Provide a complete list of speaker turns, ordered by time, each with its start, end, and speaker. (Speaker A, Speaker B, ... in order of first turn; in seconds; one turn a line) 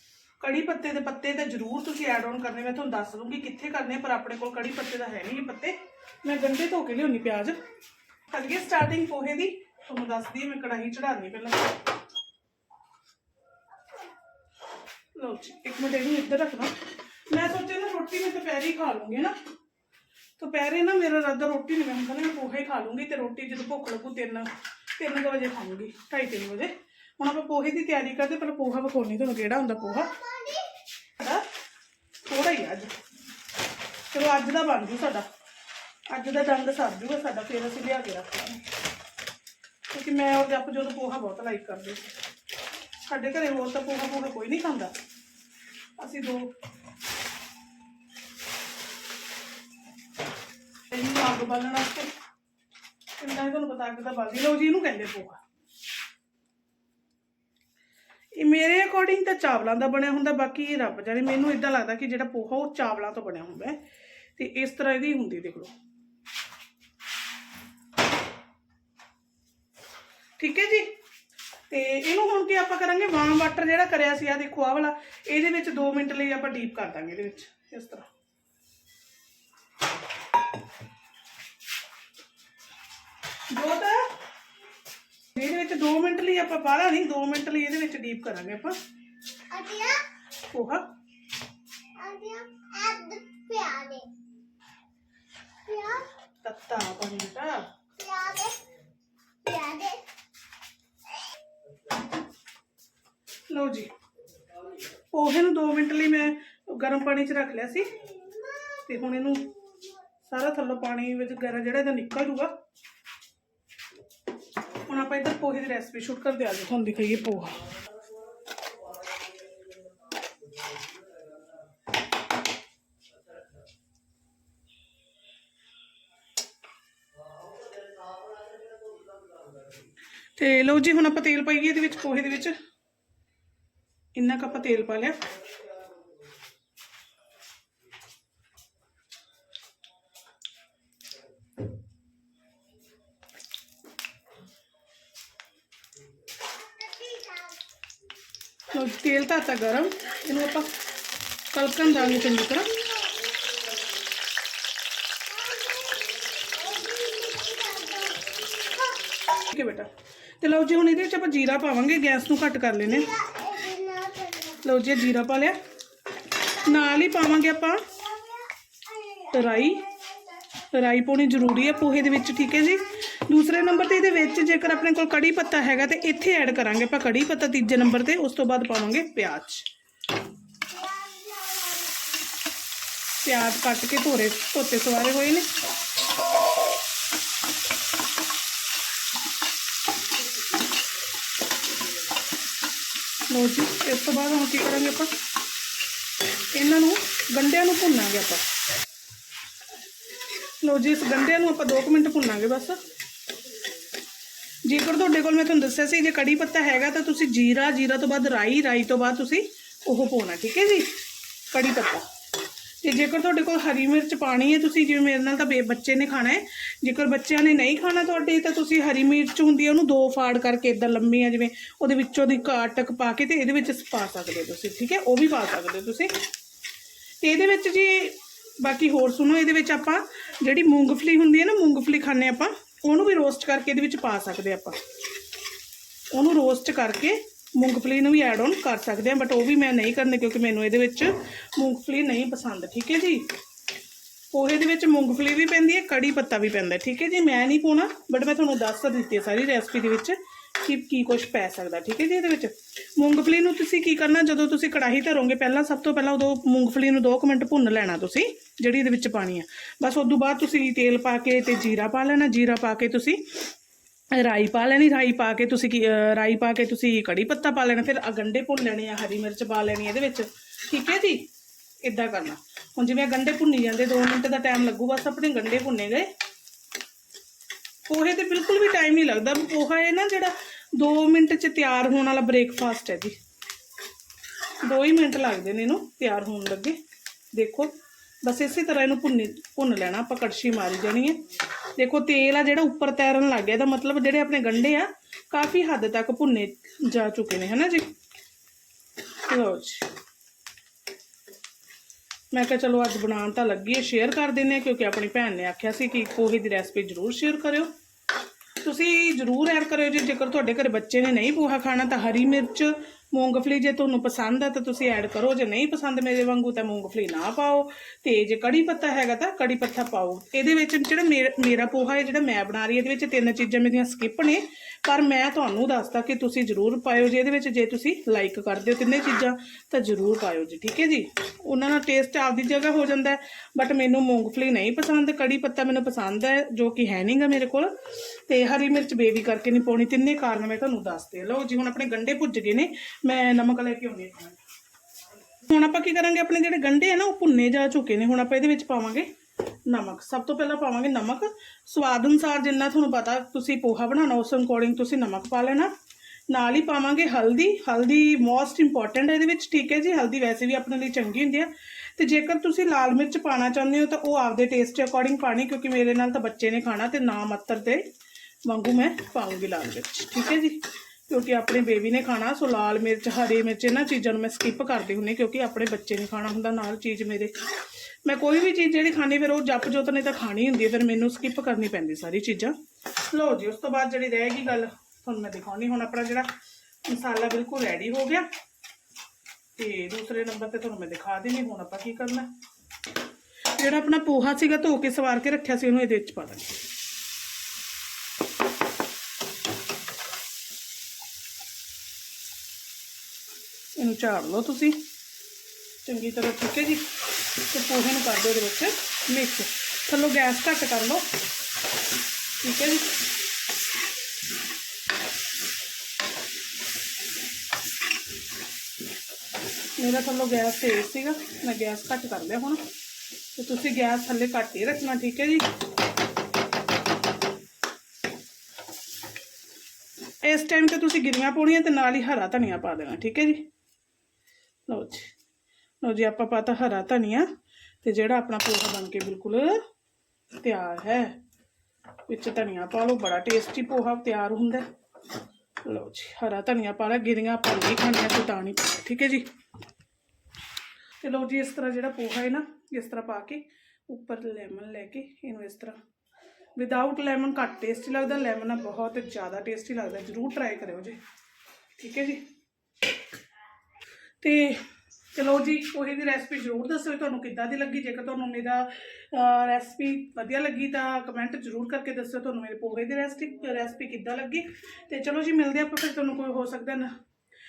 Speaker A: 0.4-7.6
Speaker A: 8.3-11.9
Speaker A: 15.2-19.4
Speaker A: 20.4-30.2
Speaker B: 30.1-30.7
Speaker A: 31.2-31.5
Speaker A: 32.3-32.9
Speaker A: 34.1-35.3
Speaker A: 36.1-38.6
Speaker A: 39.9-42.1
Speaker A: 43.0-44.9
Speaker A: 46.0-46.5
Speaker A: 50.9-52.1
Speaker A: 53.2-55.4
Speaker A: 58.4-63.8
Speaker A: 64.4-65.7
Speaker A: 70.4-70.9
Speaker A: 71.7-78.1
Speaker A: 83.5-84.1
Speaker A: 85.4-88.8
Speaker B: 89.5-90.1
Speaker A: 90.5-90.9
Speaker B: 92.0-94.1
Speaker B: 95.7-96.1
Speaker A: 96.4-97.7
Speaker B: 98.0-98.7
Speaker B: 99.4-100.1
Speaker A: 103.5-103.9
Speaker A: 105.1-108.0
Speaker B: 108.3-108.8
Speaker A: 108.8-109.5
Speaker A: 110.2-112.6
Speaker A: 114.8-117.7
Speaker A: 130.4-132.6
Speaker A: 134.2-135.3
Speaker B: 146.6-147.6
Speaker A: 148.7-150.8
Speaker A: 151.5-152.8
Speaker B: 155.3-159.0
Speaker A: 159.4-163.2
Speaker B: 163.1-164.6
Speaker A: 164.6-165.6
Speaker A: 166.4-168.0
Speaker B: 168.3-169.3
Speaker A: 169.2-169.9
Speaker A: 170.7-179.7
Speaker B: 180.7-182.1
Speaker A: 183.2-185.5
Speaker A: 193.3-195.2
Speaker A: 196.5-198.5
Speaker A: 200.6-202.8
Speaker A: 204.6-211.0
Speaker A: 211.5-212.1
Speaker A: 212.8-226.1
Speaker A: 227.2-234.8
Speaker A: 236.1-243.3
Speaker A: 244.3-263.4
Speaker A: 264.1-271.3
Speaker A: 271.8-276.1
Speaker A: 277.9-283.2
Speaker A: 284.6-286.8
Speaker A: 287.3-291.2
Speaker A: 291.8-297.9
Speaker A: 299.2-299.9
Speaker A: 302.3-307.7
Speaker A: 308.6-344.4
Speaker A: 345.4-349.1
Speaker A: 349.7-355.7
Speaker A: 356.3-367.9
Speaker A: 368.4-377.4
Speaker A: 378.1-386.3
Speaker A: 386.9-388.3
Speaker A: 389.6-392.3
Speaker A: 393.6-396.6
Speaker A: 403.8-404.8
Speaker A: 405.8-411.1
Speaker A: 412.4-413.1
Speaker A: 419.8-422.6
Speaker A: 423.3-425.5
Speaker A: 430.2-433.5
Speaker A: 434.7-435.1
Speaker A: 435.8-437.3
Speaker A: 437.8-439.6
Speaker A: 440.4-441.2
Speaker A: 442.1-444.7
Speaker A: 445.6-449.3
Speaker A: 451.0-455.8
Speaker A: 456.6-461.0
Speaker A: 461.8-462.2
Speaker A: 464.2-476.9